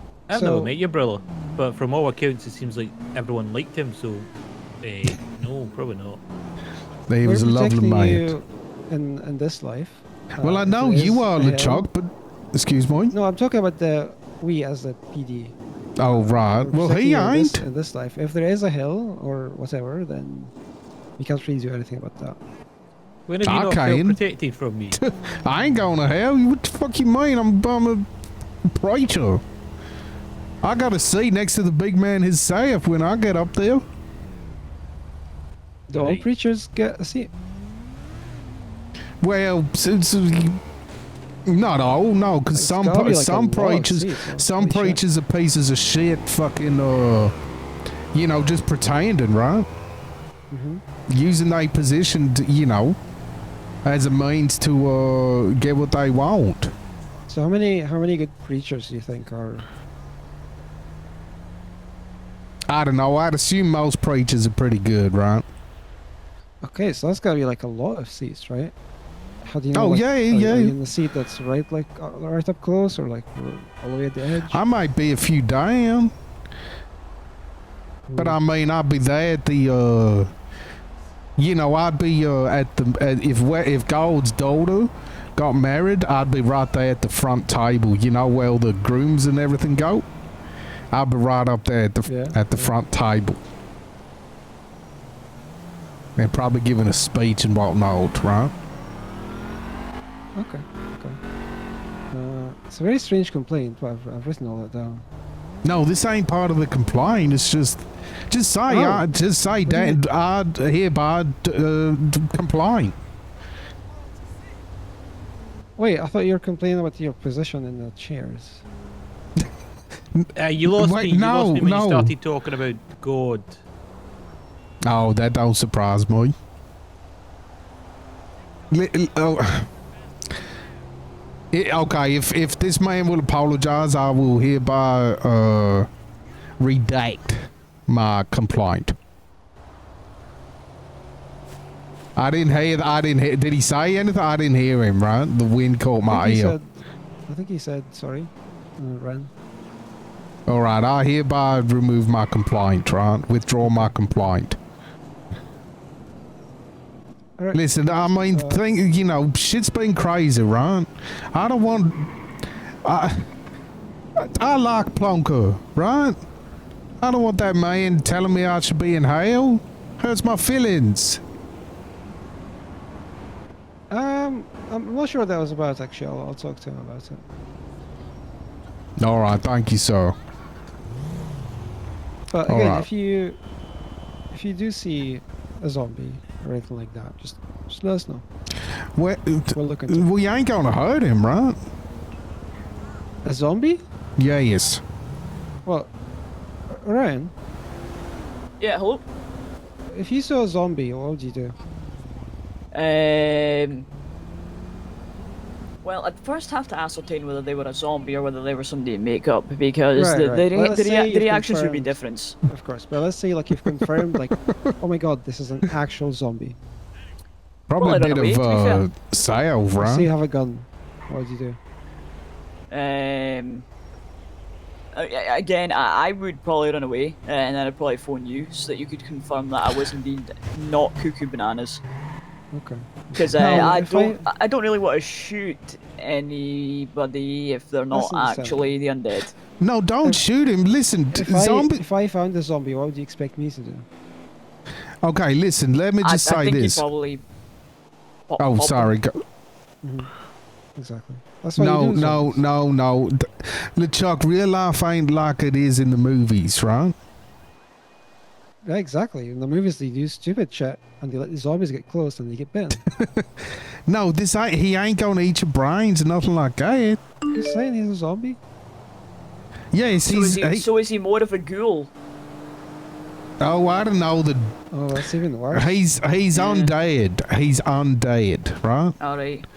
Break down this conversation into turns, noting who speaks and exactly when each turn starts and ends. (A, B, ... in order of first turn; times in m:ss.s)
0:00.3-0:06.2 A
0:00.3-0:00.7 B
0:07.1-0:08.3 C
0:07.2-0:11.9 B
0:10.4-0:13.1 C
0:13.1-0:20.5 B
0:16.0-0:17.6 C
0:21.2-0:22.4 B
0:23.3-0:25.0 A
0:23.4-0:24.2 C
0:24.9-0:28.1 C
0:28.7-0:29.4 C
0:30.6-0:33.8 C
0:35.9-0:37.3 B
0:39.2-0:40.6 C
0:41.4-0:47.3 C
0:42.5-0:45.0 B
0:48.1-0:49.7 C
0:50.5-0:50.8 B
0:51.1-0:53.0 C
0:53.8-0:56.7 C
0:57.3-0:59.7 B
1:02.7-1:05.4 C
1:06.6-1:08.7 B
1:09.4-1:14.6 B
1:09.7-1:10.7 C
1:14.5-1:16.1 C
1:18.1-1:18.4 B
1:18.2-1:20.3 C
1:21.4-1:30.0 C
1:30.9-1:33.4 C
1:32.0-1:32.7 B
1:36.2-1:38.5 C
1:40.4-1:41.2 B
1:42.1-1:45.0 B
1:45.6-1:53.0 C
1:48.7-1:49.1 B
1:49.6-1:50.0 B
1:55.8-1:58.6 B
2:00.1-2:02.1 C
2:00.4-2:03.6 A
2:04.8-2:06.3 C
2:08.7-2:09.7 C
2:11.5-2:15.9 C
2:16.6-2:19.0 C
2:22.2-2:26.5 C
2:26.1-2:26.8 B
2:27.3-2:29.3 B
2:30.5-2:34.6 C
2:33.6-2:33.9 B
2:37.4-2:38.6 B
2:37.5-2:42.1 C
2:42.8-2:43.3 C
2:44.2-2:46.2 C
2:47.0-2:51.2 C
2:53.9-2:57.2 B
2:59.0-3:00.1 C
3:02.3-3:03.4 B
3:02.5-3:02.9 C
3:04.3-3:08.2 B
3:09.0-3:11.6 C
3:09.5-3:10.1 B
3:13.2-3:13.8 B
3:14.2-3:14.8 C
3:15.6-3:15.9 B
3:16.7-3:17.3 B
3:18.6-3:19.0 D
3:19.9-3:21.5 B
3:22.7-3:23.9 D
3:25.8-3:32.4 D
3:29.9-3:36.6 B
3:37.7-3:40.1 C
3:37.8-3:38.9 D
3:39.8-3:41.6 B
3:42.7-3:43.6 D
3:44.9-3:51.8 D
3:52.5-3:54.2 B
3:53.1-3:59.3 D
3:57.9-3:58.7 B
3:59.6-4:01.8 C
4:01.1-4:03.8 B
4:05.0-4:06.8 C
4:06.0-4:07.2 D
4:08.3-4:08.9 D
4:08.4-4:09.2 C
4:09.8-4:10.1 B
4:10.8-4:12.4 B
4:11.6-4:17.0 C
4:18.6-4:22.8 B
4:23.0-4:23.3 C
4:23.9-4:27.0 C
4:27.3-4:28.4 B
4:29.7-4:30.6 C
4:30.0-4:31.9 D
4:33.4-4:34.5 C
4:34.7-4:35.8 B
4:35.5-4:38.9 C
4:36.3-4:36.7 D
4:39.0-4:39.4 D